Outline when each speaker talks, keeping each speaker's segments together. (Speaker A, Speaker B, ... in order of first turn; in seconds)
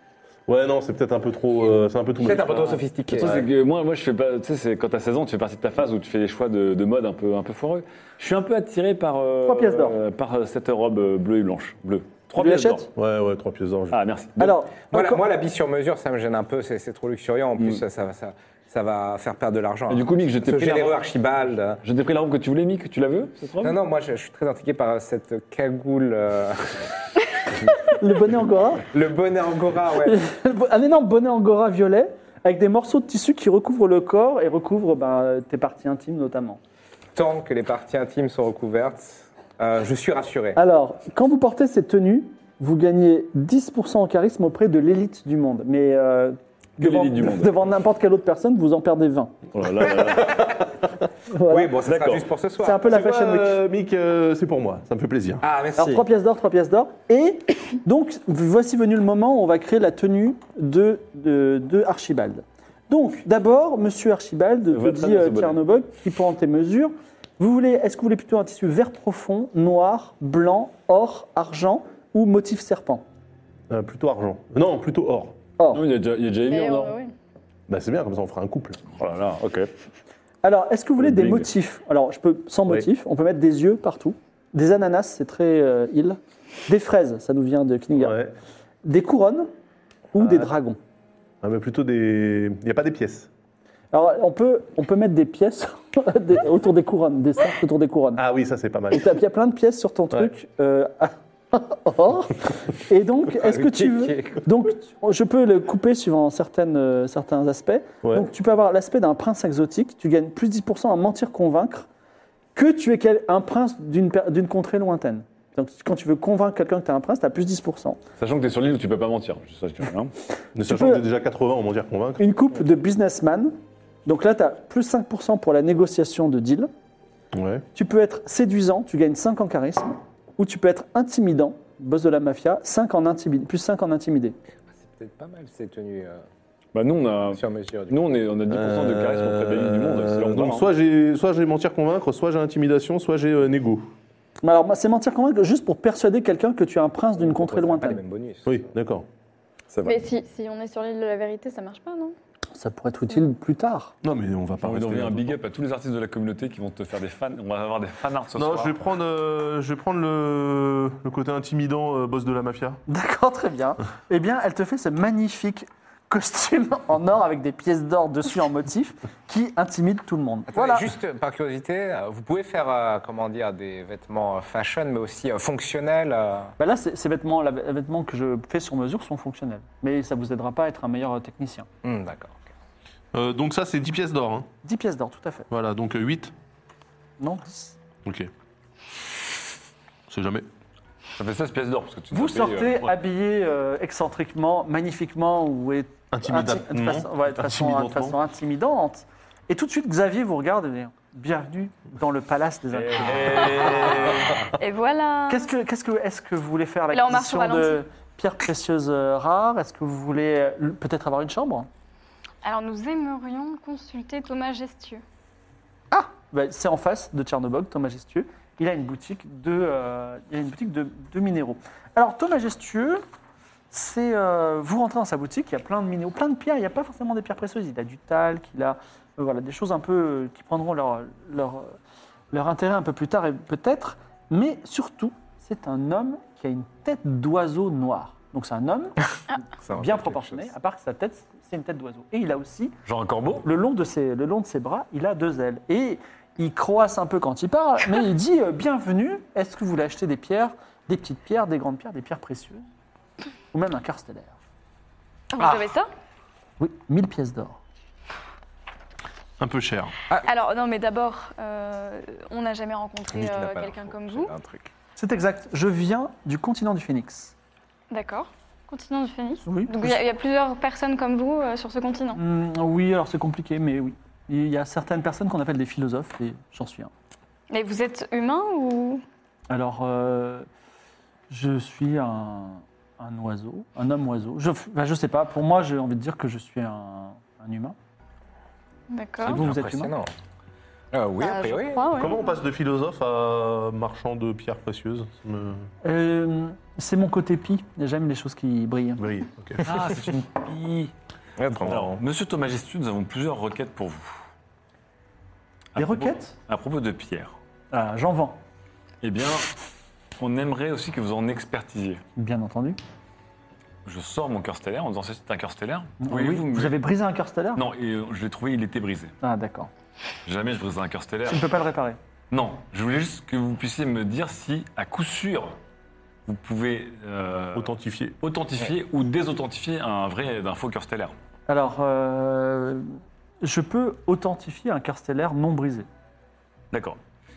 Speaker A: 0.5-3.4, 13.0-14.0, 52.9-55.4, 73.7-75.4, 77.7-78.8, 88.0-88.3, 90.2-90.5, 91.4-93.3, 98.2-99.2, 108.0-108.3, 120.5-122.2, 127.3-127.7, 138.5-143.9, 148.4-149.1, 154.0-155.4, 158.3-162.8, 183.1-184.5, 185.5-186.3, 188.1-188.3, 190.1-190.5, 196.1-198.2, 259.4-259.9, 291.9-295.7, 299.0-299.6, 327.6-328.2
Speaker B: 2.2-3.5, 14.9-21.8, 23.6-26.9, 28.9-30.2, 37.1-40.6, 50.1-50.4, 51.5-52.9, 55.4-56.1, 103.4-104.4, 134.7-136.2, 137.3-138.2, 147.2-148.7, 170.5-176.5, 181.8-182.5, 239.6-240.5, 255.4-255.6, 263.1-264.7, 289.2-290.1, 290.9-291.9, 301.4-302.0
Speaker C: 3.1-12.9, 13.9-14.6, 17.6-17.8, 19.9-21.1, 21.8-23.8, 46.8-47.6, 49.5-50.5, 51.8-52.3, 64.7-65.6, 75.7-77.0, 78.9-79.7, 81.0-81.5, 118.2-120.1, 136.7-140.7, 149.7-150.0, 154.6-158.8, 191.2-192.9, 202.7-204.5, 242.9-243.5, 299.6-300.9, 301.6-304.2, 305.8-307.4, 309.0-309.5, 310.2-312.0, 313.9-316.8, 317.6-319.1, 320.3-321.5, 322.3-325.6, 326.3-327.7, 328.2-331.1, 336.7-337.0
Speaker D: 9.4-10.0, 12.3-12.9, 14.4-15.2, 28.0-28.8, 30.0-36.6, 40.5-49.4, 51.3-51.7, 52.6-53.6, 55.8-73.0, 75.6-75.8, 80.4-88.2, 88.8-89.5, 90.1-90.8, 93.9-98.2, 98.9-111.9, 112.5-118.0, 120.7-121.0, 122.2-123.5, 124.1-126.7, 127.8-134.4, 144.4-148.0, 152.6-153.9, 162.9-170.9, 176.6-181.7, 184.6-185.5, 187.2-187.8, 192.1-204.0, 205.3-211.7, 215.9-223.0, 223.7-231.8, 232.3-239.0, 239.7-242.8, 243.4-252.6, 253.5-254.4, 256.6-257.6, 265.0-267.3, 269.5-270.0, 272.1-276.9, 279.5-280.5, 281.3-287.8, 289.3-289.9, 295.8-299.1, 305.8-306.4, 307.7-308.4, 312.2-312.8, 316.0-317.6, 319.2-319.7, 321.3-322.0, 331.5-335.9
Speaker E: 76.5-77.1, 149.8-152.2, 203.4-205.5, 206.9-207.8, 212.4-215.0, 255.3-255.9, 260.3-264.3, 267.9-272.2, 277.5-279.0, 288.9-289.4, 291.2-292.4